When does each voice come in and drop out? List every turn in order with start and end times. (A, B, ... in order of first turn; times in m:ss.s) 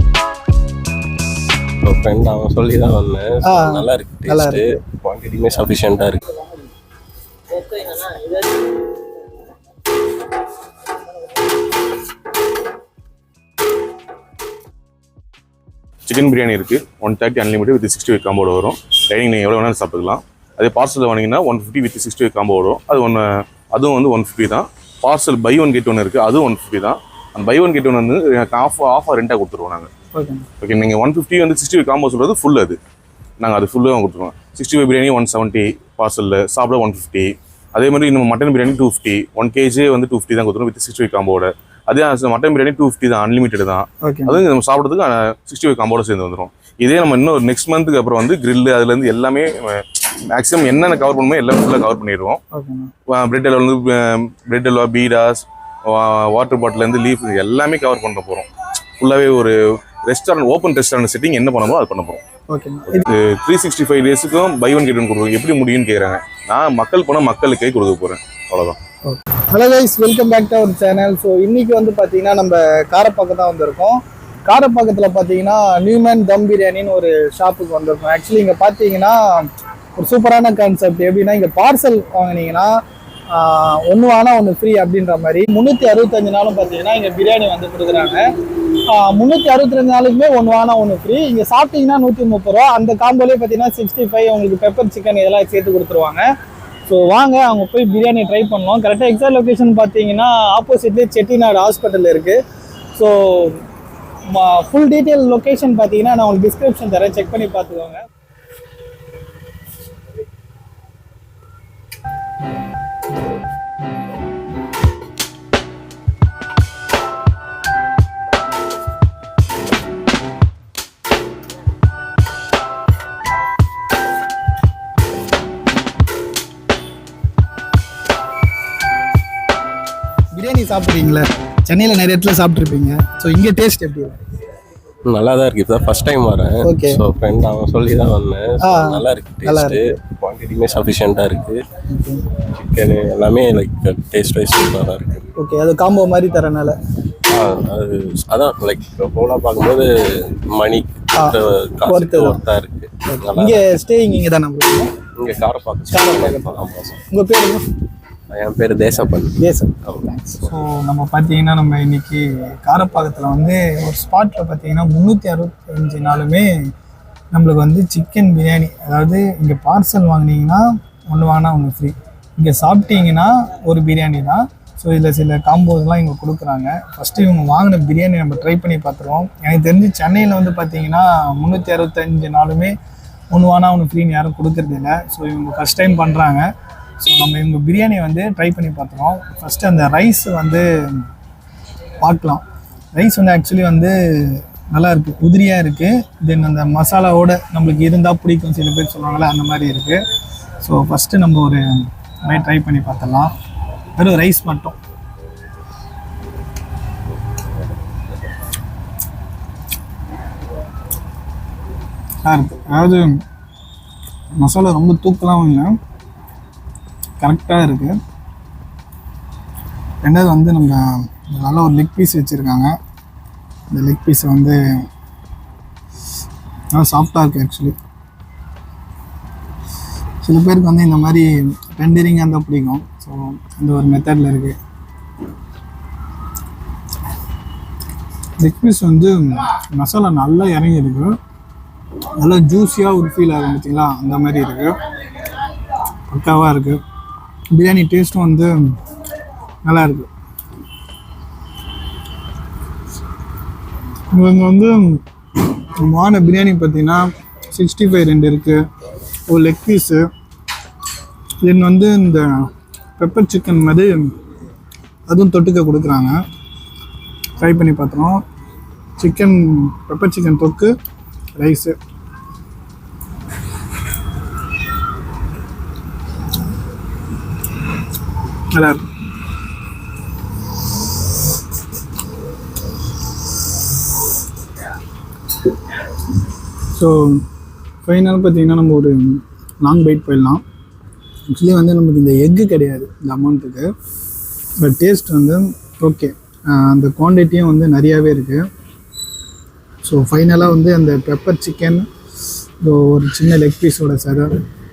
0:01.8-0:06.4 A
0:03.4-0:04.8 B
0:07.5-0:08.4 A
0:16.1-0:29.9 C
0:30.1-0:30.4 B
0:30.6-0:32.8 C
0:33.4-0:52.4 C
0:44.0-0:44.4 B
0:52.5-0:52.9 B
0:53.1-0:58.5 C
0:59.0-1:02.2 C
1:02.5-1:03.1 B
1:02.9-1:08.8 C
1:09.0-1:22.7 B
1:23.3-1:28.2 B
1:28.9-1:36.2 B
1:36.9-1:42.4 B
1:42.9-1:43.6 B
1:44.3-1:48.0 B
2:10.3-2:14.2 B
2:15.0-2:21.6 A
2:16.6-2:17.0 B
2:18.6-2:20.0 B
2:21.9-2:22.3 B
2:22.5-2:25.3 A
2:25.4-2:26.8 B
2:27.3-2:33.8 A
2:31.1-2:32.4 B
2:33.1-2:34.9 B
2:35.2-2:37.0 A
2:35.9-2:37.6 B
2:38.3-2:40.6 A
2:39.4-2:46.5 B
2:47.3-3:02.7 B
3:03.3-3:06.4 B
3:07.0-3:10.7 B
3:12.0-3:12.4 B
3:12.9-3:20.0 B
3:20.6-3:21.6 B
3:22.2-3:23.3 B
3:24.0-3:24.8 B
3:32.2-3:33.2 B
3:34.4-3:35.7 B
3:37.2-3:37.9 B
3:40.0-3:42.7 B
3:43.7-3:44.6 B
3:46.7-3:47.7 B
3:50.2-3:54.6 B
3:58.4-4:01.1 B
4:02.2-4:04.7 B
4:06.1-4:06.8 B
4:07.5-4:08.5 B
4:09.6-4:10.1 B
4:14.1-4:18.6 B
4:19.3-4:20.0 B
4:21.4-4:24.1 B
4:25.1-4:26.2 B
4:27.4-4:28.2 B
4:29.0-4:30.7 B
4:31.4-4:31.8 B
4:38.5-4:38.8 B
4:46.7-4:47.2 B
4:47.8-4:50.4 B
4:51.3-4:53.7 B
4:54.6-4:58.4 B
4:59.8-5:01.8 B
5:02.6-5:04.3 B